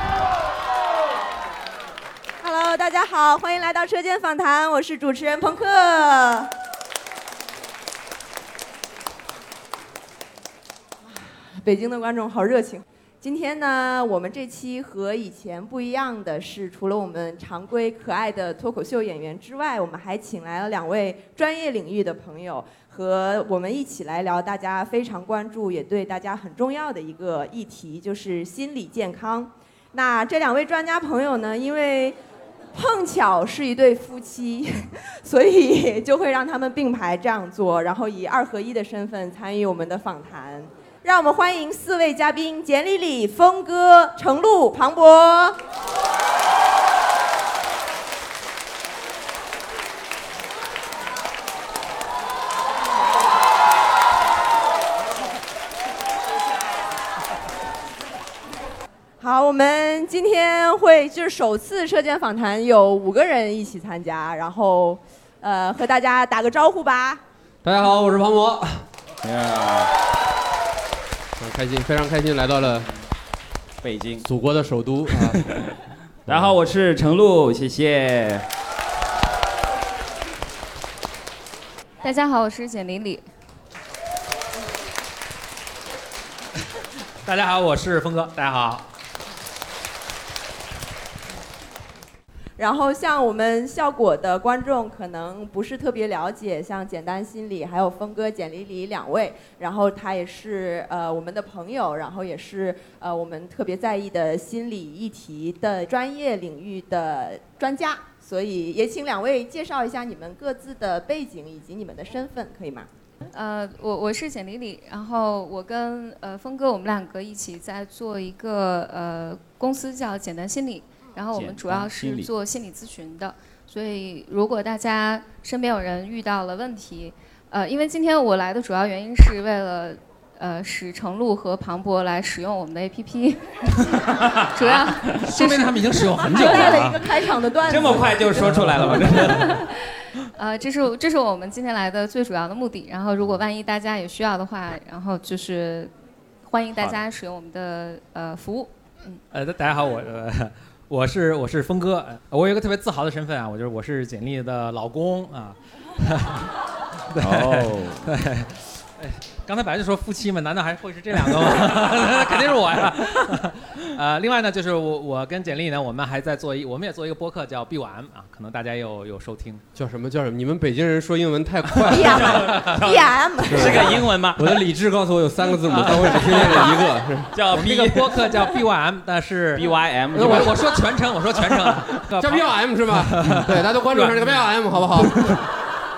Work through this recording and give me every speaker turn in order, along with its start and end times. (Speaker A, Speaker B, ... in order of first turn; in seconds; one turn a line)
Speaker A: 2.4-6.5
Speaker A: 11.0-32.2
Speaker A: 32.7-45.6
Speaker A: 59.2-67.2
Speaker B: 67.6-68.8
Speaker C: 69.2-69.9
Speaker B: 71.4-72.9
Speaker C: 73.8-74.3
Speaker B: 74.2-75.5
Speaker C: 75.1-78.5
Speaker B: 76.3-76.5
Speaker D: 82.0-83.2
Speaker E: 87.2-88.9
Speaker A: 92.6-112.9
Speaker D: 113.3-136.7
Speaker C: 121.3-122.3
Speaker C: 134.1-135.2
Speaker E: 135.2-137.1
Speaker A: 136.3-139.2
Speaker C: 137.6-139.6
Speaker E: 137.8-139.6
Speaker D: 139.3-145.9
Speaker D: 146.4-149.2
Speaker E: 149.3-156.5
Speaker E: 157.1-169.6
Speaker C: 157.2-158.1
Speaker B: 169.7-172.5
Speaker C: 171.7-174.6
Speaker A: 171.9-174.1
Speaker E: 172.4-172.8
Speaker B: 173.5-177.4
Speaker E: 175.7-176.8
Speaker C: 176.3-176.8
Speaker C: 177.3-178.5
Speaker E: 177.5-184.5
Speaker C: 179.5-180.8
Speaker B: 180.1-180.6
Speaker B: 182.2-185.4
Speaker C: 184.9-185.5